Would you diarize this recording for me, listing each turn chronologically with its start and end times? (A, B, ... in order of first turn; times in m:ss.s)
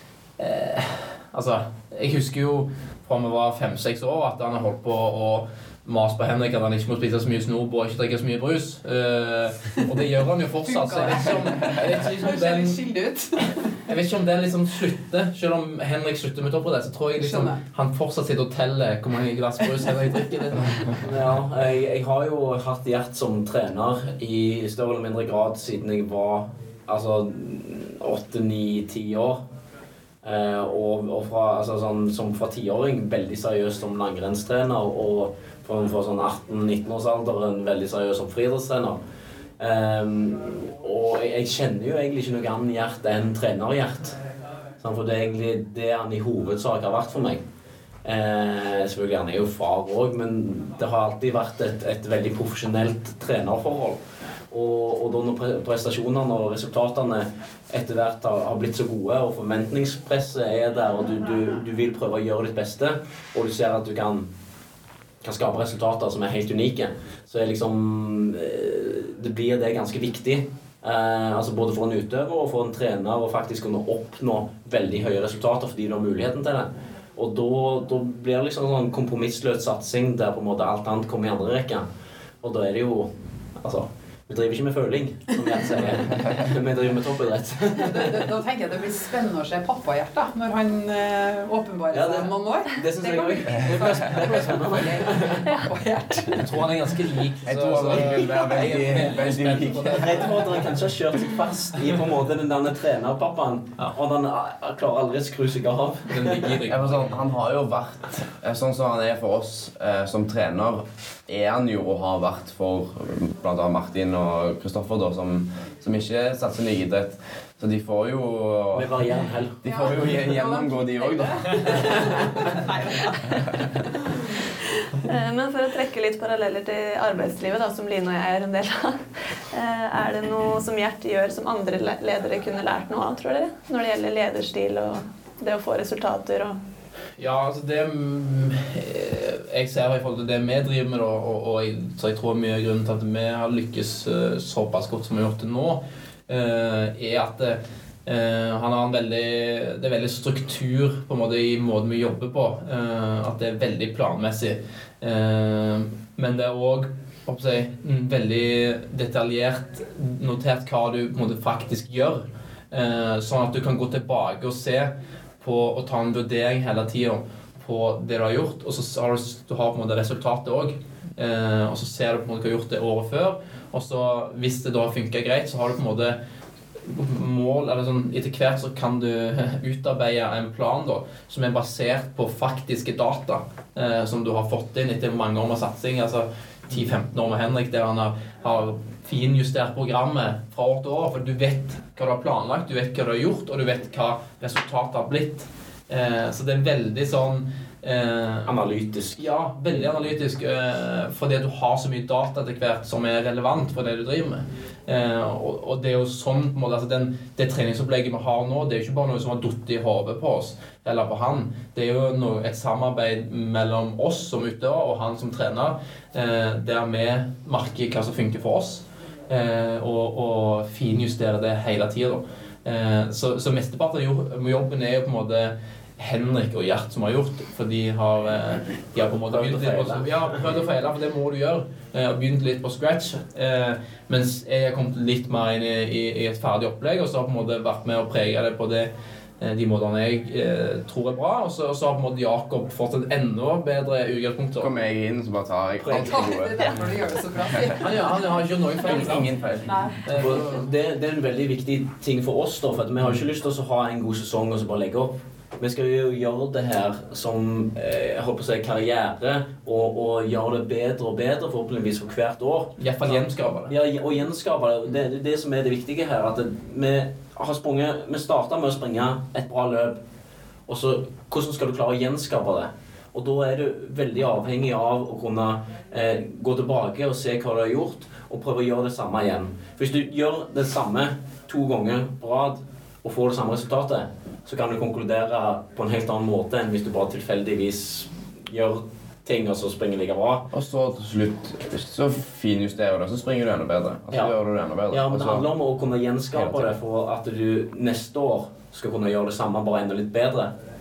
0:00.4-0:12.8 A
0:10.6-0:13.7 B
0:13.9-0:21.0 A
0:17.2-0:17.6 B
0:21.0-0:29.4 C
0:30.2-0:39.0 C
0:39.6-0:44.2 C
0:44.8-0:47.4 C
0:48.0-0:54.0 C
0:54.5-1:04.3 C
1:05.2-1:21.8 C
1:22.4-1:28.3 C
1:27.8-1:36.6 B
1:31.9-1:35.4 C
1:35.4-1:35.7 D
1:36.4-1:40.7 A
1:37.4-1:40.3 E
1:39.9-1:46.5 C
1:46.1-1:47.2 A
1:46.7-1:59.0 E
1:58.7-1:59.8 C
1:59.6-2:01.8 E
1:59.6-2:03.9 B
2:01.5-2:02.5 C
2:05.0-2:16.6 D
2:17.2-2:56.2 A
2:56.8-3:18.6 A
3:18.4-3:19.2 C
3:19.2-3:58.9 A
3:49.3-3:50.4 C
3:59.4-4:04.7 A
4:04.6-4:06.6 E
4:05.8-4:06.8 C
4:05.9-4:08.3 B
4:07.8-4:09.3 A
4:08.8-4:09.8 E
4:09.6-4:10.0 B
4:10.0-4:10.6 A
4:10.1-4:30.0 C
4:22.8-4:23.7 A
4:30.7-4:50.5 C
4:50.5-4:55.5 E
4:54.9-5:00.5 C
4:56.3-4:56.7 E